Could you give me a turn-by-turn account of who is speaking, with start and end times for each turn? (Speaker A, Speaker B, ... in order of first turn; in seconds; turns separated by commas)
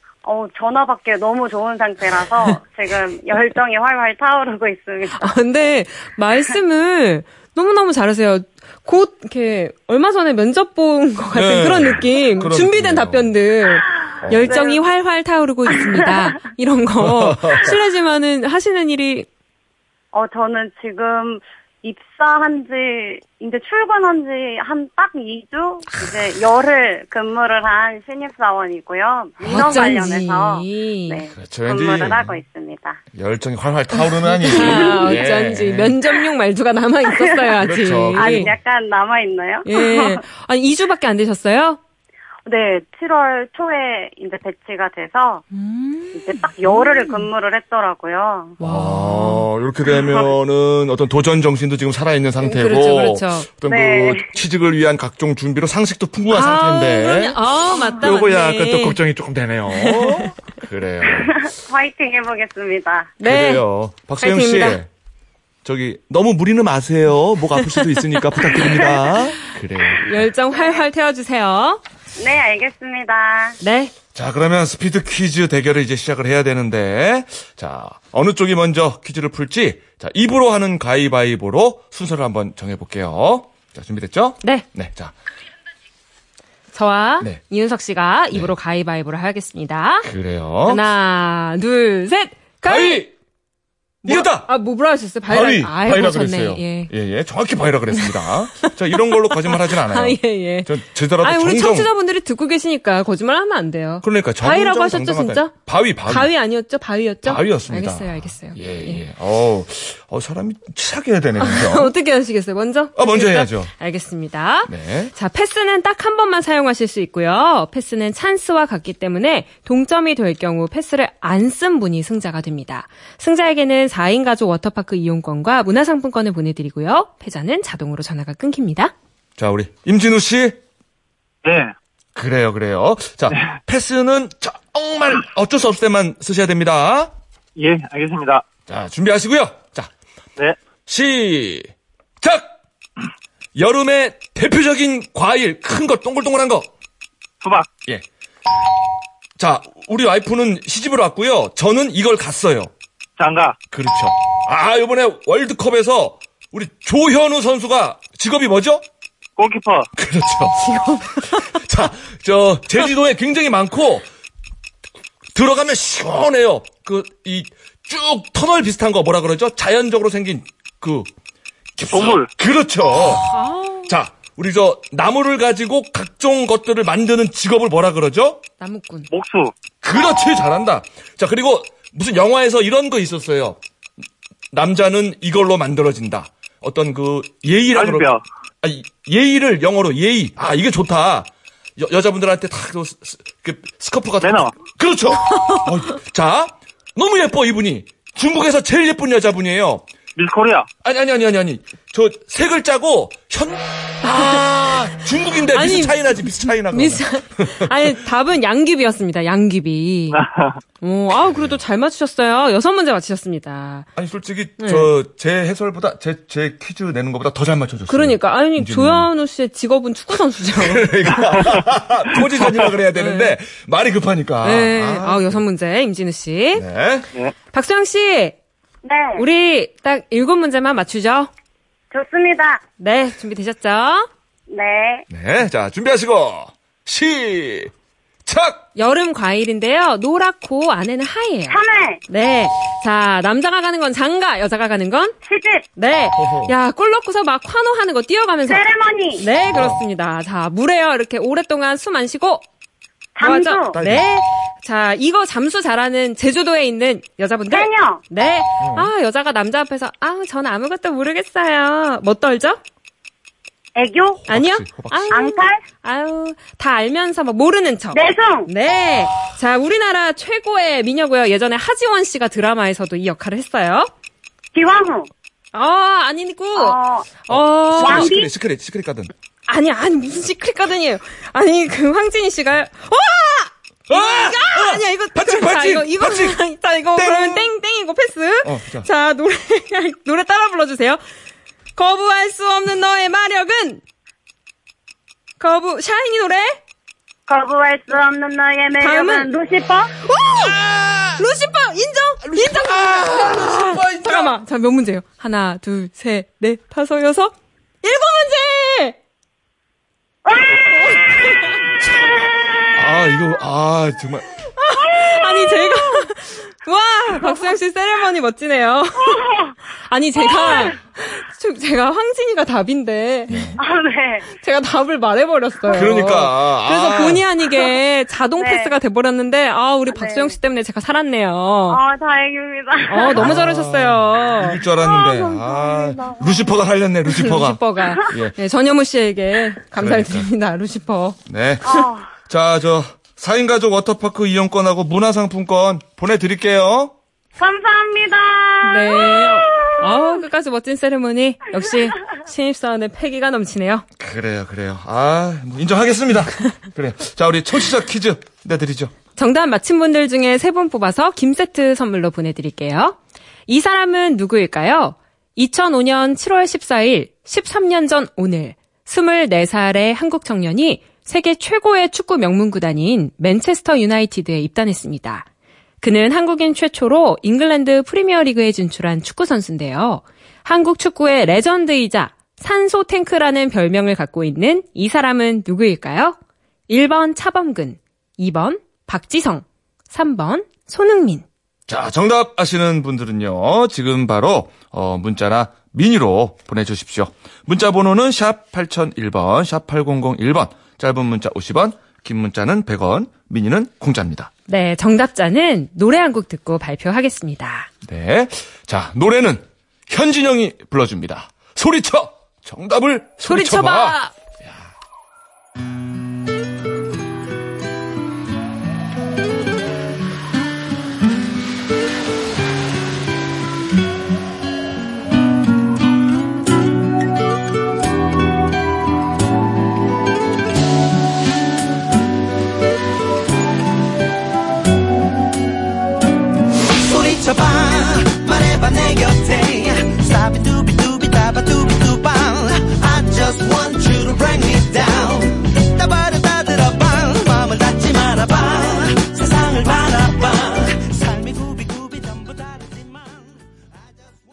Speaker A: 0.2-5.3, Speaker B: 5.1-19.3, Speaker C: 11.3-13.3, Speaker A: 14.1-14.8, Speaker C: 14.2-14.6, Speaker A: 15.7-16.3, Speaker C: 17.0-17.8, Speaker A: 20.1-33.0, Speaker B: 29.4-31.2, Speaker C: 29.5-29.7, Speaker C: 31.4-32.4, Speaker C: 33.1-36.0, Speaker B: 33.9-38.5, Speaker A: 34.5-35.2, Speaker A: 37.1-37.5, Speaker C: 37.6-38.5, Speaker A: 38.1-40.2, Speaker B: 39.6-41.8, Speaker A: 42.5-45.4, Speaker B: 45.5-47.3, Speaker A: 46.1-48.6, Speaker B: 48.6-49.5, Speaker C: 48.6-61.5, Speaker A: 50.0-50.3, Speaker B: 52.4-53.5, Speaker A: 53.7-54.3, Speaker B: 56.3-59.0, Speaker B: 59.7-60.3, Speaker A: 61.1-63.2, Speaker B: 63.2-63.6, Speaker C: 63.2-64.9, Speaker B: 64.2-64.8, Speaker C: 65.7-70.1, Speaker B: 67.6-69.1, Speaker B: 70.0-71.8, Speaker A: 70.5-70.8, Speaker A: 72.2-73.6, Speaker B: 73.6-73.9, Speaker C: 74.2-85.1, Speaker B: 86.7-90.1, Speaker C: 90.0-90.8, Speaker B: 90.6-93.0, Speaker C: 92.6-93.1, Speaker C: 94.0-94.5, Speaker B: 94.0-96.9, Speaker C: 95.3-101.9, Speaker B: 97.9-105.5, Speaker C: 104.0-106.3, Speaker B: 106.1-109.0, Speaker C: 107.2-111.9, Speaker B: 111.4-128.9, Speaker C: 113.0-113.7, Speaker C: 114.7-115.1, Speaker C: 129.4-130.6, Speaker D: 131.4-131.7, Speaker C: 132.2-137.1, Speaker D: 137.6-138.4, Speaker C: 138.7-139.9, Speaker C: 140.9-142.6, Speaker C: 143.6-146.7, Speaker D: 147.4-147.7, Speaker C: 149.4-152.7, Speaker D: 153.2-153.6, Speaker C: 153.7-158.8, Speaker D: 159.4-159.9, Speaker C: 159.9-164.1, Speaker B: 160.6-161.6, Speaker C: 165.3-171.1, Speaker C: 171.8-173.3, Speaker D: 171.9-172.3, Speaker B: 173.0-173.9, Speaker C: 173.9-178.4, Speaker B: 178.6-179.1, Speaker D: 179.1-179.5, Speaker C: 179.8-183.6, Speaker C: 184.5-199.9, Speaker D: 187.7-188.2, Speaker D: 194.2-194.6, Speaker B: 195.3-195.7, Speaker D: 200.2-200.7, Speaker C: 200.8-208.0, Speaker B: 204.0-204.8, Speaker B: 205.5-210.2, Speaker D: 210.1-210.6, Speaker B: 210.8-213.9, Speaker C: 211.2-211.6, Speaker C: 214.0-219.1, Speaker B: 214.6-214.9, Speaker B: 217.9-221.5, Speaker C: 220.4-225.4, Speaker B: 222.9-223.4, Speaker B: 224.4-226.6, Speaker C: 226.6-227.1, Speaker B: 227.5-228.4, Speaker A: 228.8-229.2, Speaker B: 229.2-231.3, Speaker A: 231.9-232.6, Speaker B: 232.8-234.1, Speaker A: 234.5-235.1, Speaker C: 235.1-237.7, Speaker C: 238.2-238.7, Speaker B: 238.8-241.6, Speaker A: 241.5-242.0, Speaker B: 242.1-245.2, Speaker A: 245.2-245.7, Speaker B: 245.8-252.4, Speaker C: 246.2-246.6, Speaker A: 248.5-249.2, Speaker C: 249.5-249.8, Speaker A: 253.2-253.8, Speaker B: 253.2-262.6, Speaker C: 253.7-254.1, Speaker A: 257.5-258.0, Speaker C: 258.6-258.9, Speaker A: 263.8-264.2, Speaker C: 264.2-265.2, Speaker B: 264.3-273.9, Speaker A: 265.1-265.6, Speaker A: 267.9-268.5, Speaker A: 274.5-275.1, Speaker B: 275.5-278.1, Speaker A: 276.6-277.1, Speaker C: 277.3-279.1, Speaker A: 277.8-278.3, Speaker B: 279.5-291.0, Speaker C: 283.9-286.4, Speaker C: 286.9-287.5, Speaker C: 288.4-288.9, Speaker B: 291.8-293.8, Speaker B: 295.4-296.6, Speaker A: 297.3-299.9, Speaker B: 298.8-299.3, Speaker B: 300.0-300.6, Speaker C: 300.2-301.2, Speaker B: 301.2-309.0, Speaker C: 302.2-304.3, Speaker A: 310.3-311.2, Speaker B: 310.8-311.6, Speaker A: 311.8-312.8, Speaker C: 312.8-314.3, Speaker B: 314.6-319.2, Speaker A: 314.8-316.1, Speaker A: 317.2-317.5, Speaker A: 319.0-319.6, Speaker B: 319.9-323.5, Speaker A: 320.2-320.8, Speaker C: 323.3-323.6, Speaker A: 323.6-324.3, Speaker B: 324.3-331.8, Speaker C: 325.7-327.2, Speaker A: 328.4-328.8, Speaker A: 329.9-330.4, Speaker A: 331.7-333.4, Speaker B: 332.9-334.6, Speaker C: 333.1-338.4, Speaker A: 334.7-336.5, Speaker B: 337.1-341.2, Speaker C: 339.8-340.3, Speaker C: 341.3-346.9, Speaker A: 341.6-342.2, Speaker A: 347.4-350.1, Speaker B: 348.6-353.9, Speaker C: 354.0-358.9, Speaker B: 359.2-375.3, Speaker B: 375.8-386.2, Speaker B: 386.7-391.3, Speaker C: 391.7-404.3, Speaker B: 404.5-407.7, Speaker C: 407.9-414.6, Speaker B: 413.3-414.1, Speaker E: 436.7-453.4